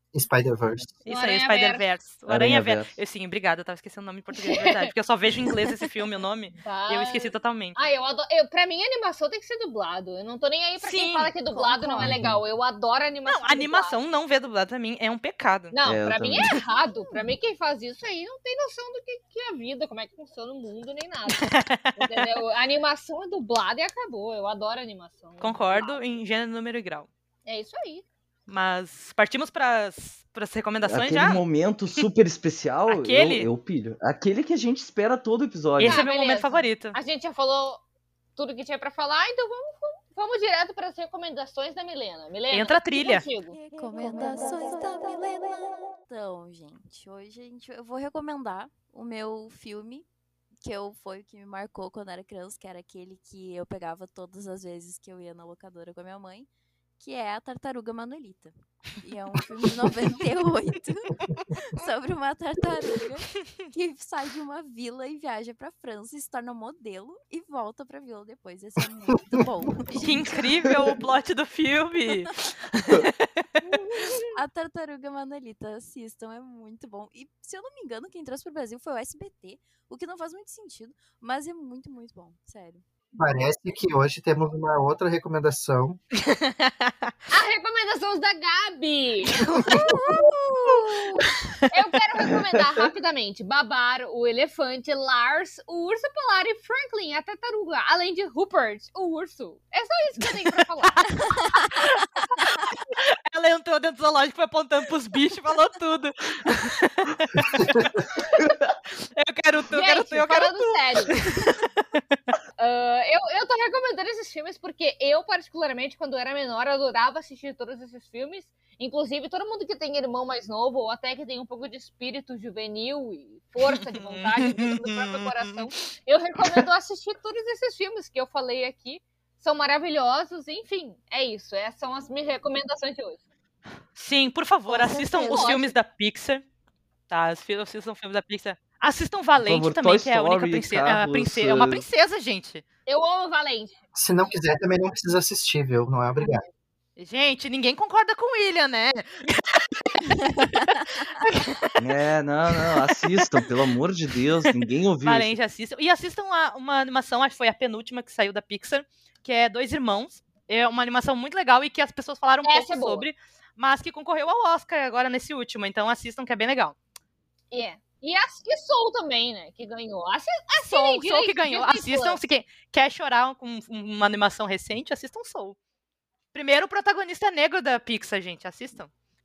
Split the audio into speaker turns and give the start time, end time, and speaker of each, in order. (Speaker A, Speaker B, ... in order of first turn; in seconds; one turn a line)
Speaker A: 0.1-0.9
Speaker B: 1.1-7.8
Speaker C: 1.1-1.9
Speaker D: 2.3-3.0
Speaker C: 4.3-4.9
Speaker C: 5.4-5.9
Speaker C: 6.6-14.0
Speaker B: 10.8-11.8
Speaker E: 11.5-12.0
Speaker A: 12.0-12.4
Speaker D: 12.0-12.4
Speaker B: 13.3-15.8
Speaker C: 15.7-26.0
Speaker D: 15.8-16.6
Speaker B: 21.3-22.4
Speaker B: 25.4-27.1
Speaker C: 27.5-28.1
Speaker B: 28.5-31.4
Speaker D: 30.9-36.0
Speaker B: 32.9-33.5
Speaker B: 35.8-37.0
Speaker C: 35.8-37.8
Speaker C: 38.4-43.6
Speaker B: 42.5-43.2
Speaker E: 43.3-50.1
Speaker E: 50.6-56.5
Speaker E: 57.0-70.7
Speaker B: 70.0-73.3
Speaker C: 73.6-74.3
Speaker E: 74.3-82.8
Speaker A: 83.2-86.0
Speaker B: 86.2-87.1
Speaker C: 87.3-101.1
Speaker B: 89.3-91.7
Speaker B: 100.5-107.9
Speaker E: 101.1-101.8
Speaker A: 107.5-107.9
Speaker D: 108.4-108.8
Speaker B: 108.9-112.1
Speaker C: 109.7-111.4
Speaker C: 112.6-133.2
Speaker B: 123.6-125.7
Speaker B: 134.0-136.4
Speaker E: 134.7-135.7
Speaker C: 134.9-135.7
Speaker B: 137.1-142.6
Speaker D: 139.4-141.8
Speaker C: 142.9-143.8
Speaker A: 143.9-146.5
Speaker B: 147.0-151.8
Speaker E: 150.1-150.6
Speaker D: 151.8-155.4
Speaker B: 155.0-166.8
Speaker C: 162.4-163.1
Speaker C: 167.5-172.2
Speaker B: 170.6-175.6
Speaker B: 176.3-178.9